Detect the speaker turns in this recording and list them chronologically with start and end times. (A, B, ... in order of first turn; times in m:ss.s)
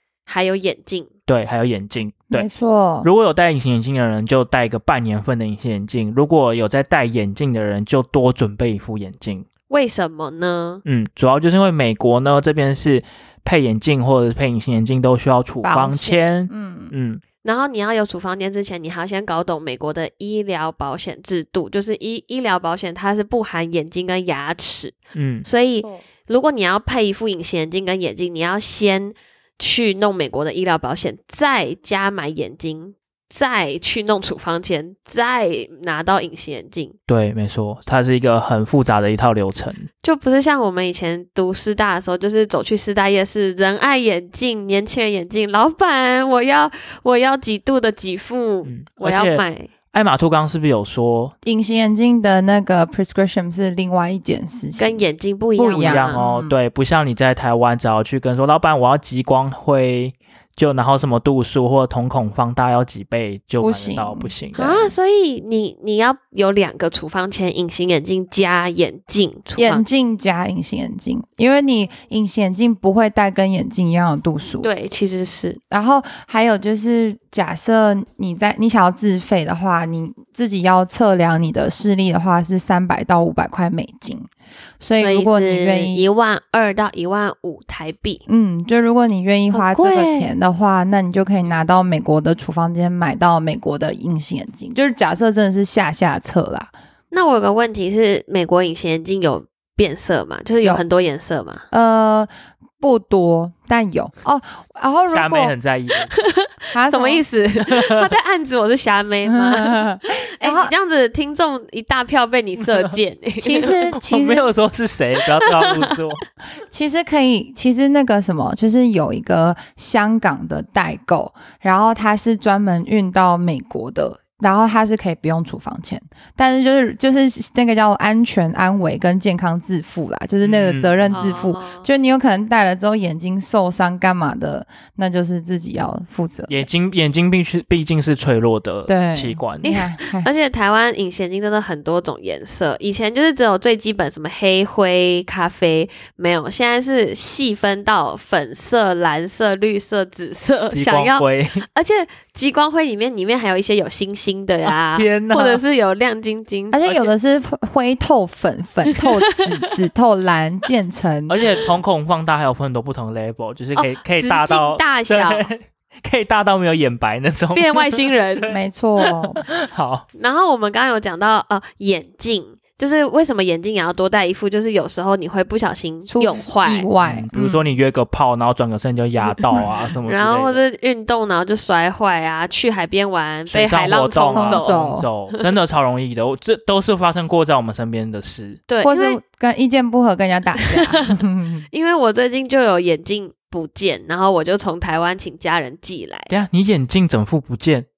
0:00.3-0:01.1 A
0:01.3-0:02.4 B
0:02.3-0:03.1 C
0:03.0-0:09.4 B
0:09.7-0:10.8 A
0:10.8-0:17.2 B
0:15.6-0:16.9 C
0:17.4-0:36.9 A
0:25.1-0:25.4 B
0:37.1-0:39.9 B
0:40.0-0:49.7 A
0:48.6-0:51.3 B
0:51.4-0:55.0 C
0:54.8-0:56.2 A
0:55.6-0:56.6 C
0:55.8-1:04.9 B
1:03.6-1:04.3 C
1:04.5-1:09.8 A
1:09.6-1:14.7 C
1:14.6-1:15.6 A
1:15.7-1:24.3 C
1:24.8-1:26.1 C
1:25.0-1:28.2 A
1:28.3-1:36.7 C
1:29.5-1:30.3 A
1:37.1-1:41.6 A
1:41.7-1:45.5 C
1:45.1-1:46.1 B
1:46.1-1:53.8 A
1:46.7-1:47.2 C
1:47.6-1:48.1 B
1:49.2-1:50.7 C
1:53.4-1:54.5 C
1:53.9-1:56.2 B
1:55.4-1:55.9 A
1:56.7-2:16.7 C
2:10.4-2:11.2 B
2:11.1-2:11.9 A
2:16.5-2:19.7 B
2:18.9-2:20.3 C
2:19.6-2:36.8 A
2:30.7-2:31.6 B
2:34.7-2:35.6 B
2:36.7-2:41.4 C
2:36.8-2:37.1 B
2:38.9-2:39.6 A
2:41.3-2:48.5 B
2:43.8-2:45.5 A
2:47.5-2:48.5 A
2:48.5-2:49.4 C
2:49.1-2:50.0 B
2:50.1-2:56.9 A
2:56.1-2:57.7 C
2:57.0-3:00.6 B
2:59.4-2:59.7 C
3:00.0-3:04.8 A
3:03.5-3:08.6 B
3:04.3-3:05.1 C
3:08.7-3:09.2 A
3:08.8-3:11.6 C
3:10.7-3:11.2 A
3:11.7-3:16.3 A
3:16.3-3:17.8 B